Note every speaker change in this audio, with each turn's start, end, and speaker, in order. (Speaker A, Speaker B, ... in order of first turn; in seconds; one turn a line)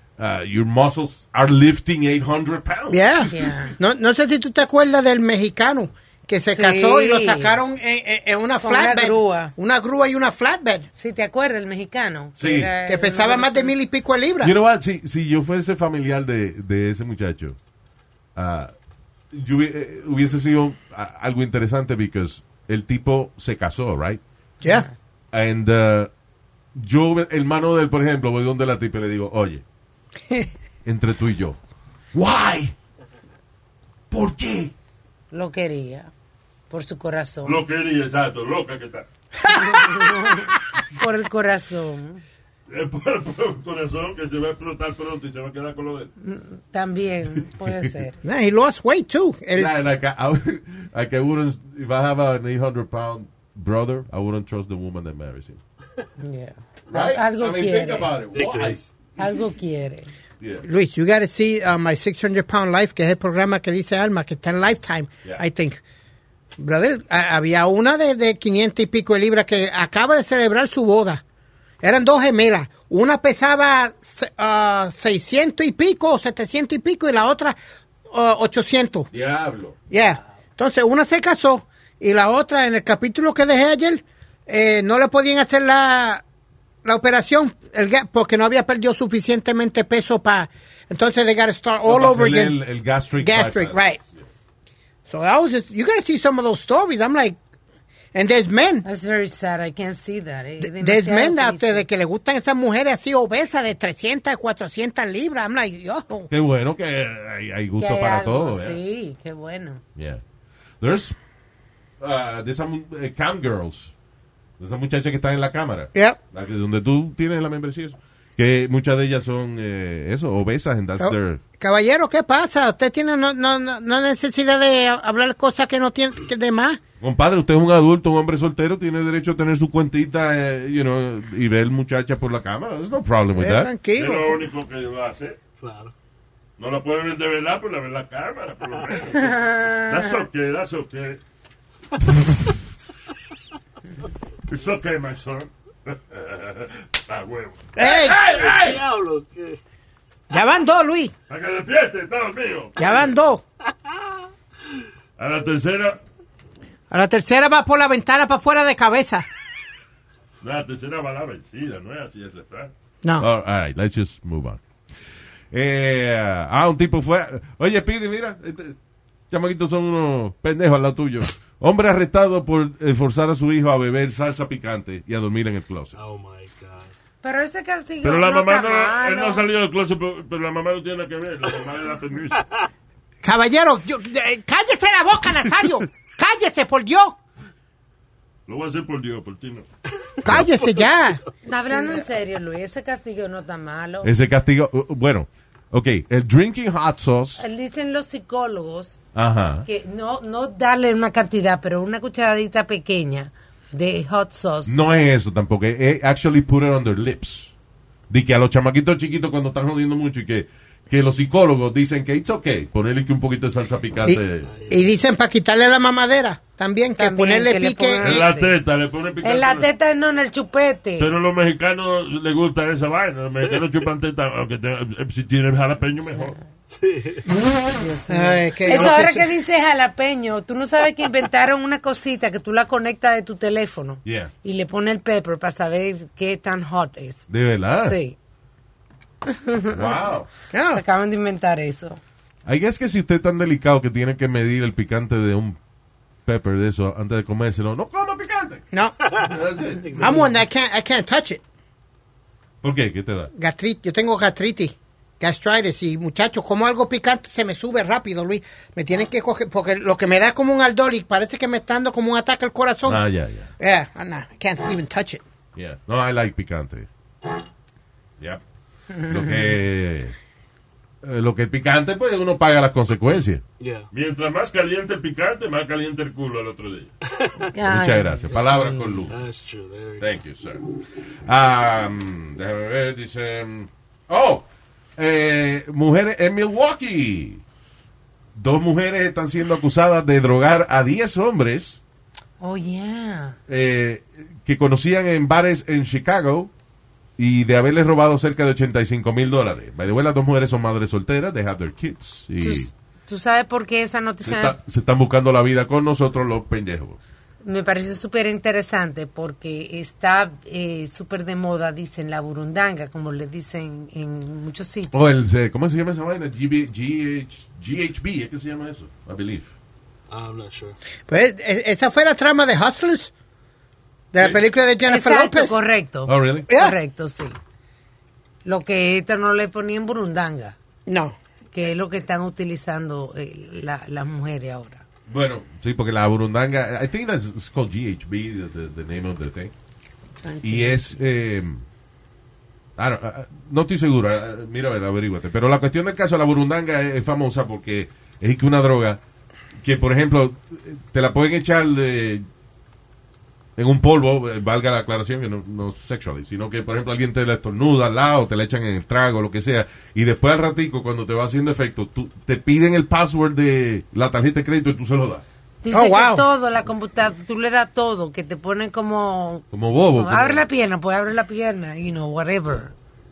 Speaker A: 0.2-3.5
Speaker B: 2.9-10.9
Speaker C: 3.3-3.8
Speaker C: 6.5-7.5
Speaker C: 8.6-9.5
Speaker C: 10.9-13.7
Speaker A: 12.4-12.7
Speaker B: 12.8-14.5
Speaker A: 14.4-17.6
Speaker A: 18.3-18.7
Speaker A: 19.3-24.2
Speaker C: 24.6-24.9
Speaker A: 25.3-26.1
Speaker A: 26.7-29.6
Speaker A: 30.8-31.6
Speaker A: 32.1-32.7
Speaker A: 34.1-34.7
Speaker C: 35.3-36.1
Speaker C: 36.7-37.6
Speaker D: 37.4-39.0
Speaker B: 39.4-40.3
Speaker C: 39.5-42.2
Speaker D: 42.7-46.1
Speaker C: 46.2-48.2
Speaker A: 47.6-47.9
Speaker B: 48.2-49.7
Speaker A: 49.5-55.6
Speaker C: 56.2-58.1
Speaker A: 56.9-59.2
Speaker E: 58.3-58.9
Speaker C: 59.2-60.1
Speaker A: 60.4-60.6
Speaker B: 60.6-65.8
Speaker B: 66.6-71.2
Speaker B: 71.8-77.5
Speaker B: 78.1-79.1
Speaker A: 79.1-79.8
Speaker B: 79.9-86.2
Speaker B: 86.8-92.5
Speaker A: 91.8-94.2
Speaker B: 93.2-94.0
Speaker B: 95.1-97.4
Speaker B: 98.1-98.8
Speaker C: 98.8-101.8
Speaker B: 100.6-106.3
Speaker A: 106.3-108.8
Speaker C: 107.8-109.8
Speaker A: 110.0-110.2
Speaker A: 110.8-111.2
Speaker A: 112.0-113.9
Speaker A: 114.6-121.4
Speaker B: 121.0-126.8
Speaker A: 127.0-133.7
Speaker B: 133.4-134.5
Speaker D: 133.9-135.4
Speaker E: 135.6-135.9
Speaker D: 136.6-141.2
Speaker C: 139.2-139.8
Speaker D: 144.5-148.8
Speaker B: 147.8-148.2
Speaker E: 148.0-149.6
Speaker B: 150.3-151.1
Speaker D: 151.3-153.1
Speaker B: 152.8-153.4
Speaker D: 155.2-156.0
Speaker B: 156.9-159.2
Speaker D: 160.4-162.7
Speaker A: 163.2-164.6
Speaker A: 165.5-168.8
Speaker A: 169.3-175.9
Speaker E: 175.9-176.9
Speaker C: 177.2-179.4
Speaker D: 178.0-182.4
Speaker B: 183.2-187.2
Speaker D: 188.5-189.7
Speaker E: 190.1-190.9
Speaker B: 190.2-192.0
Speaker C: 191.4-194.1
Speaker A: 194.0-197.4
Speaker C: 197.4-199.0
Speaker A: 199.1-199.7
Speaker C: 199.7-204.7
Speaker A: 204.7-207.5
Speaker A: 208.1-214.5
Speaker B: 214.0-218.3
Speaker E: 214.4-214.9
Speaker C: 216.9-218.6
Speaker D: 218.0-219.7
Speaker C: 219.2-221.1
Speaker D: 221.0-226.3
Speaker E: 226.7-227.3
Speaker B: 227.3-229.3
Speaker C: 227.7-238.2
Speaker A: 234.0-234.3
Speaker A: 237.3-238.0
Speaker C: 239.3-240.0
Speaker A: 239.7-240.3
Speaker B: 240.5-240.8
Speaker C: 240.7-242.0
Speaker A: 242.4-245.6
Speaker A: 246.2-249.9
Speaker B: 248.7-249.1
Speaker E: 249.8-250.3
Speaker B: 249.9-251.4
Speaker A: 252.6-253.3
Speaker B: 253.3-263.0
Speaker A: 262.8-263.5
Speaker B: 263.6-265.2
Speaker A: 265.5-266.9
Speaker A: 269.0-270.1
Speaker A: 271.0-273.4
Speaker E: 273.6-273.9
Speaker D: 273.9-276.9
Speaker E: 277.1-277.5
Speaker C: 277.5-278.4
Speaker A: 277.6-279.2
Speaker E: 278.3-280.1
Speaker A: 280.0-280.6
Speaker A: 281.2-284.4
Speaker A: 285.0-287.4
Speaker A: 288.4-291.8
Speaker C: 292.4-293.4
Speaker A: 293.5-296.5
Speaker A: 297.2-302.7
Speaker C: 302.4-304.6
Speaker A: 304.2-307.0
Speaker C: 307.4-314.9
Speaker A: 314.9-319.5
Speaker E: 320.1-320.8
Speaker B: 321.1-323.1
Speaker B: 324.1-325.6
Speaker C: 324.9-327.3
Speaker A: 326.1-326.5
Speaker B: 326.5-326.8
Speaker C: 328.4-330.6
Speaker B: 330.9-331.2
Speaker C: 331.5-334.8
Speaker A: 335.1-339.5
Speaker C: 340.2-340.8
Speaker A: 340.4-341.6
Speaker A: 342.8-349.0
Speaker A: 349.6-352.3
Speaker A: 353.6-365.2
Speaker C: 365.6-372.7
Speaker B: 365.7-366.2
Speaker A: 369.5-370.4